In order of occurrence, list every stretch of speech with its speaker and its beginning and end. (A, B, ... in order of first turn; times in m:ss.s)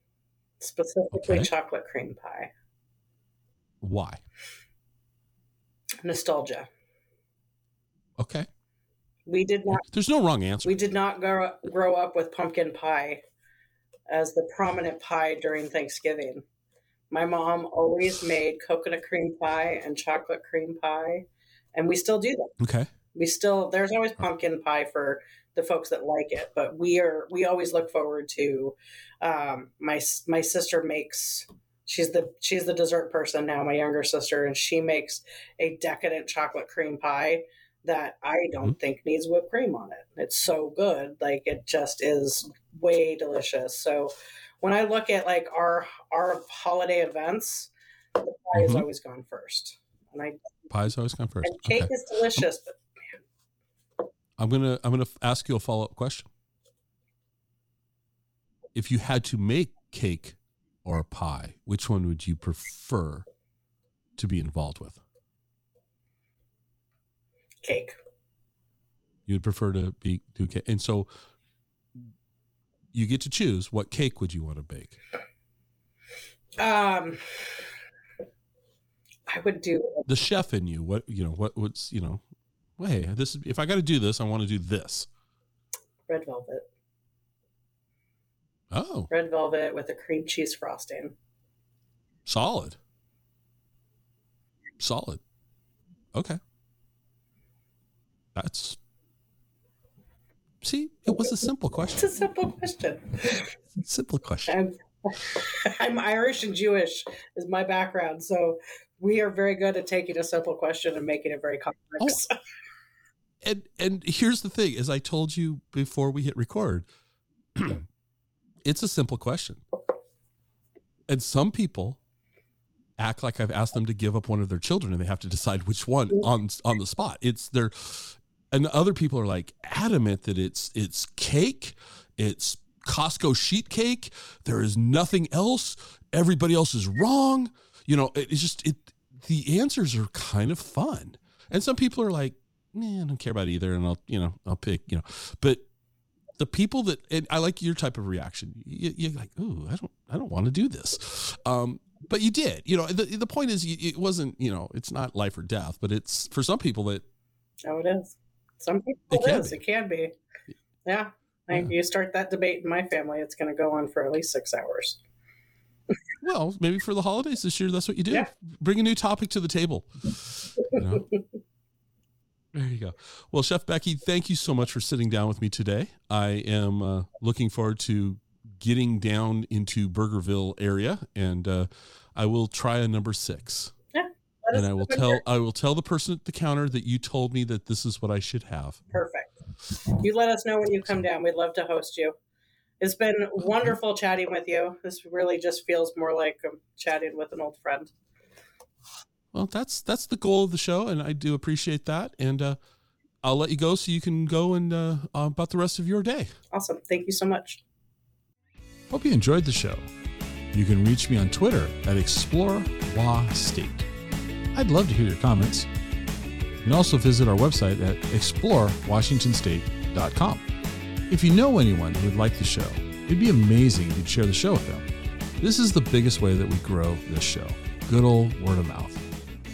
0:00.6-0:02.5 A
0:01.1-0:01.5 B
0:03.8-0:04.2 B
0:06.0-0:06.7 A
0:08.2-0:08.5 B
0:09.3-0:09.8 A
0:09.7-0:10.7 B
0:10.6-0:13.2 A
0:14.1-0:16.4 A
0:17.1-0:22.5 A
0:22.6-0:22.9 B
0:23.1-0:50.7 A
0:48.5-0:48.9 B
0:50.7-0:52.4 B
0:51.4-0:52.8 A
0:54.4-0:56.3 B
0:58.7-1:03.2 B
1:04.2-1:05.0 B
1:07.6-1:07.9 A
1:09.3-1:11.1 B
1:12.9-1:15.0 B
1:16.6-1:17.6 A
1:19.3-1:20.1 A
1:20.1-1:22.2 B
1:22.8-1:25.1 B
1:26.1-1:26.6 A
1:28.7-1:29.1 B
1:29.1-1:31.1 A
1:32.2-1:32.8 B
1:34.8-1:35.2 B
1:36.1-1:36.4 B
1:38.3-1:38.8 B
1:40.6-1:42.1 B
1:41.9-1:43.5 A
1:43.8-1:44.5 B
1:44.5-1:52.3 A
1:53.4-1:56.9 B
1:57.5-1:57.8 B
1:58.6-1:59.6 B
2:01.1-2:02.0 B
2:03.0-2:25.6 B
2:26.4-2:37.0 B
2:37.6-2:40.1 A
2:39.1-2:39.6 B
2:40.8-2:45.0 A
2:46.2-2:51.0 B
2:50.7-2:51.2 A
2:52.5-3:03.7 B
3:03.9-3:05.2 A
3:04.5-3:08.8 B
3:08.9-3:09.4 A
3:09.9-3:12.1 A
3:12.8-3:17.9 A
3:19.3-3:22.6 B
3:23.2-3:26.3 B
3:26.5-3:27.6 A
3:28.9-3:29.9 C
3:30.5-3:33.9 C
3:34.5-3:35.7 C
3:36.6-3:40.4 C
3:41.1-3:44.9 C
3:45.4-3:49.0 C